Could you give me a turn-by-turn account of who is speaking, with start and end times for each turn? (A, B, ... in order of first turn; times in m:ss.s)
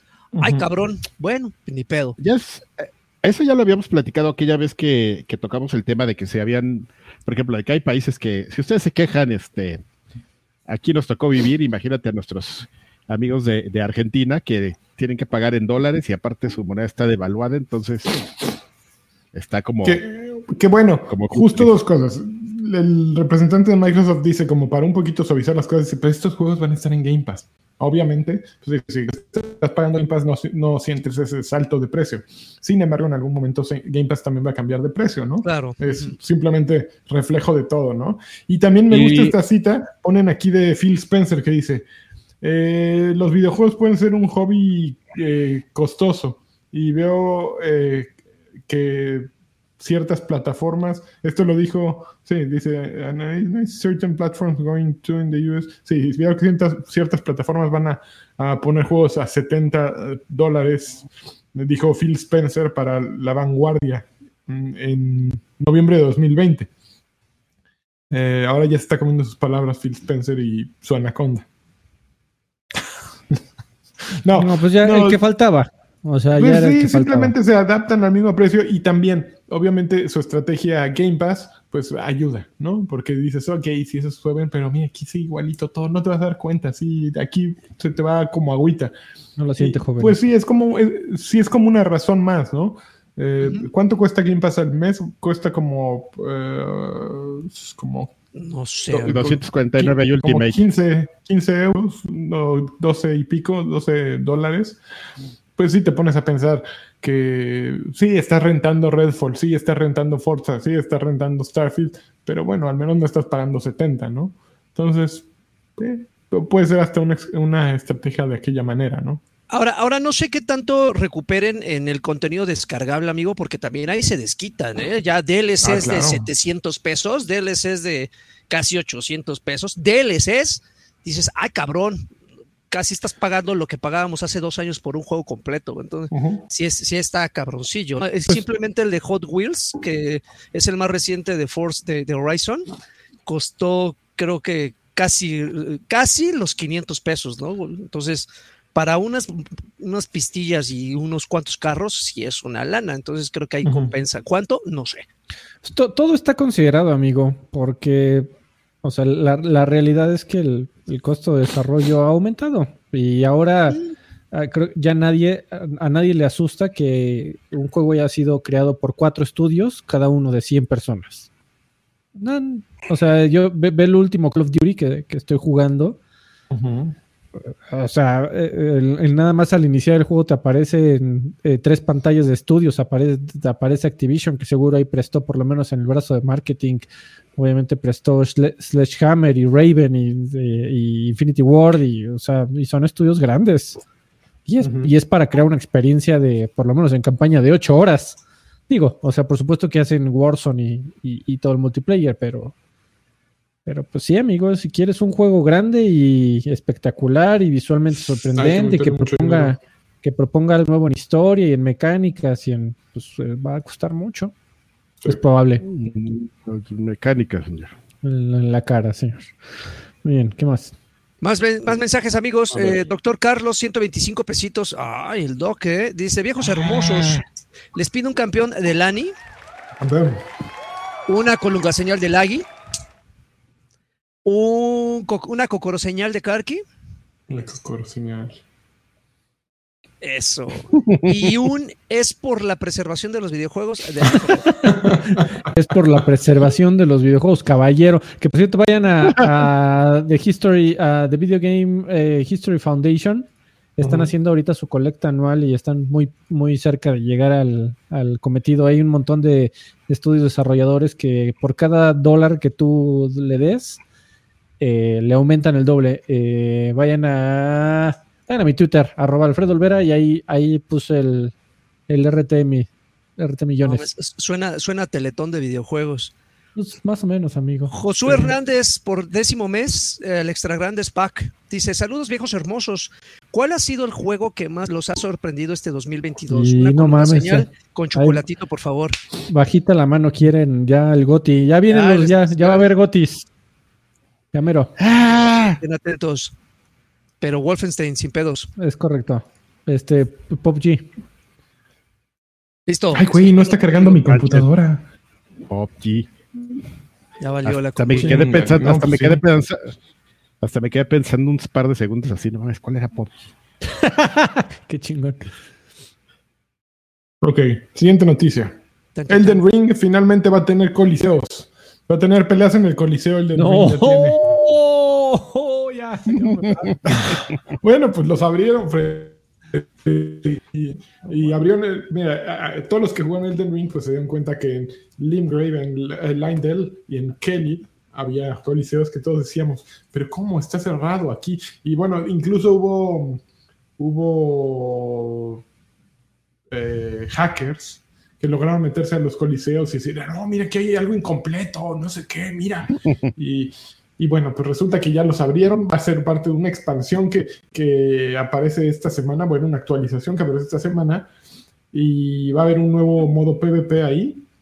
0:00.4-0:00.6 A
0:00.4-0:02.2 B
0:02.2-0:09.8 C
0:10.7-0:18.3 C
0:19.3-0:20.0 C
0:19.8-0:41.8 A
0:21.1-0:21.7 C
0:35.4-0:36.1 B
0:38.9-0:39.3 C
0:42.4-0:48.2 A
0:48.7-1:06.7 A
1:08.1-1:11.4 A
1:14.2-1:15.2 A
1:14.3-1:17.3 D
1:16.3-1:28.9 A
1:29.4-1:30.2 D
1:29.6-1:38.1 A
1:33.4-1:33.7 B
1:38.4-1:39.3 B
1:38.9-1:44.8 A
1:39.0-1:40.6 C
1:45.6-1:59.2 A
1:59.5-2:12.1 B
2:05.6-2:06.3 A
2:12.7-2:22.7 B
2:16.1-2:16.4 A
2:23.2-2:35.0 B
2:33.6-2:33.9 A
2:35.6-2:38.3 D
2:38.8-2:51.3 D
2:52.2-2:56.0 D
2:56.5-2:57.0 A
2:57.6-3:13.8 D
3:14.4-3:18.2 D
3:14.6-3:14.9 A
3:18.7-3:22.5 D
3:23.6-3:34.3 D
3:28.3-3:29.6 A
3:35.0-3:35.6 D
3:35.6-3:37.7 C
3:38.0-3:39.4 D
3:40.0-3:40.7 D
3:41.2-3:49.1 B
3:46.7-3:47.2 C
3:49.8-3:50.2 A
3:51.1-3:52.5 B
3:54.2-3:56.6 B
3:57.3-3:58.4 A
4:00.0-4:04.7 B
4:00.7-4:01.3 C
4:04.6-4:05.3 A
4:04.6-4:23.8 D
4:13.8-4:14.1 A
4:24.6-4:31.3 D
4:31.9-4:33.9 D
4:33.6-4:36.1 B
4:36.6-4:38.3 D
4:37.7-4:49.0 B
4:46.3-4:48.2 D
4:49.3-4:53.3 D
4:51.7-4:52.6 B
4:54.3-4:54.7 D
4:54.8-4:55.6 C
4:55.6-4:56.3 B
4:57.2-4:58.5 B
4:58.6-5:00.9 D
5:02.7-5:03.9 B
5:02.9-5:04.8 A
5:03.9-5:04.5 C
5:05.5-5:06.1 C
5:07.2-5:08.4 B
5:07.4-5:09.7 C
5:08.0-5:09.2 A
5:10.4-5:13.1 C
5:13.7-5:15.3 D
5:17.2-5:18.6 A
5:18.9-5:19.4 B
5:19.1-5:24.2 A
5:23.3-5:27.0 D
5:26.2-5:26.8 C
5:26.9-5:43.2 A
5:43.8-5:45.4 A
5:46.5-6:01.1 A
6:01.7-6:04.2 A